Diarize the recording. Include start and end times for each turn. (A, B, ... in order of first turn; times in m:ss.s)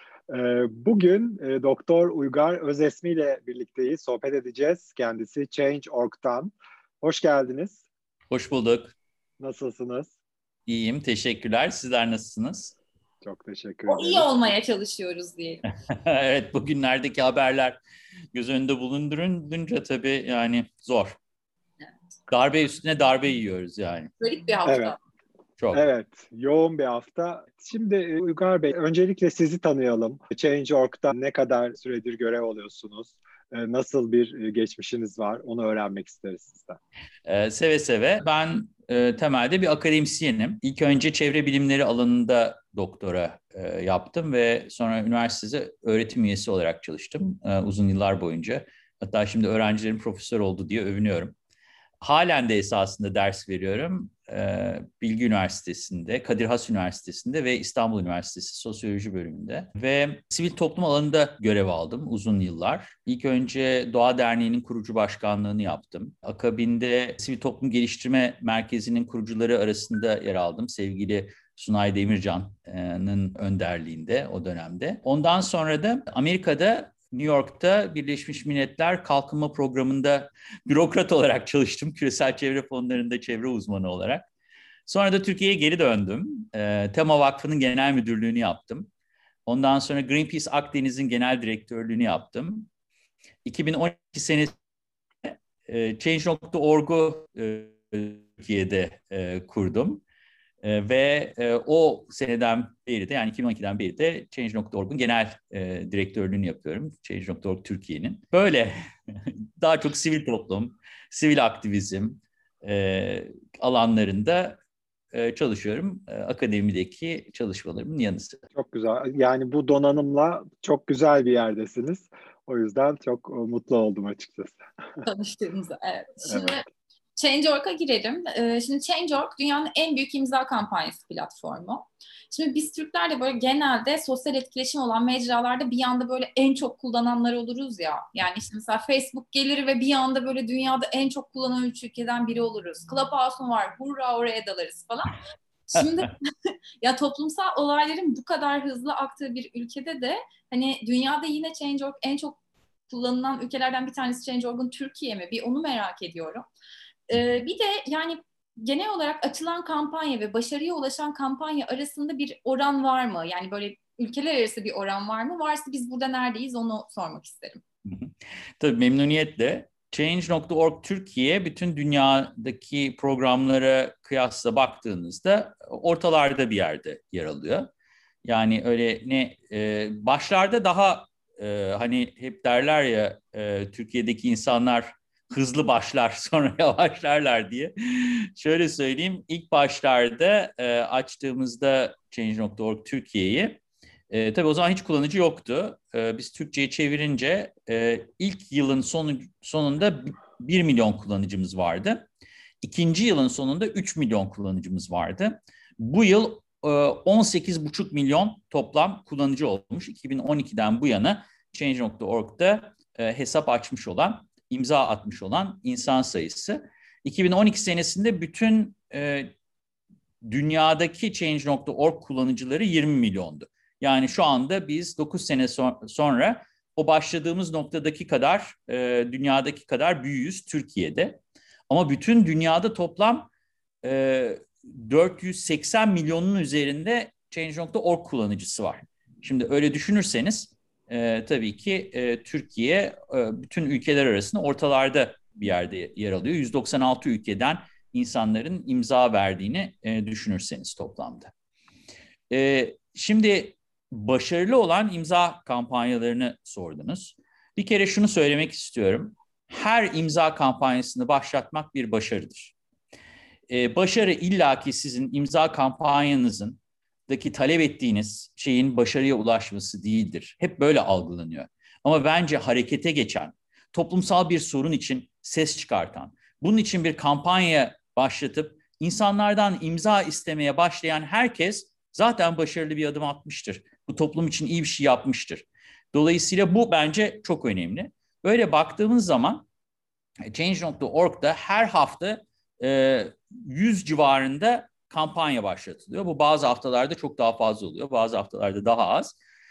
0:00.3-0:07.8 A
0:08.3-0:09.0 B
0:09.4-0:10.1 A
0:10.7-0:12.7 B
0:13.2-0:14.3 A
0:13.9-0:15.6 C
0:15.9-0:17.8 B
0:18.3-0:21.2 B
0:22.3-0:24.1 B
0:24.2-0:25.0 C
0:24.6-0:25.0 A
0:25.7-0:36.8 A
0:37.2-0:51.3 B
0:52.0-1:24.2 B
1:24.9-1:28.9 B
1:29.4-1:32.7 B
1:33.4-1:34.5 B
1:35.2-1:40.0 B
1:40.6-1:54.6 B
1:55.1-1:58.4 B
1:58.6-2:04.6 A
2:05.0-2:06.6 C
2:06.3-2:06.6 A
2:07.2-2:25.2 C
2:25.7-2:26.3 C
2:26.8-2:32.4 C
2:32.9-2:36.4 C
2:37.1-2:47.6 C
2:47.8-2:57.7 B
2:58.2-3:13.6 B
3:14.1-3:22.1 B
3:22.6-3:39.3 B
3:40.2-3:53.3 B
3:53.8-4:11.3 B
4:12.3-4:22.5 B
4:23.5-4:49.5 B
4:50.3-4:59.2 B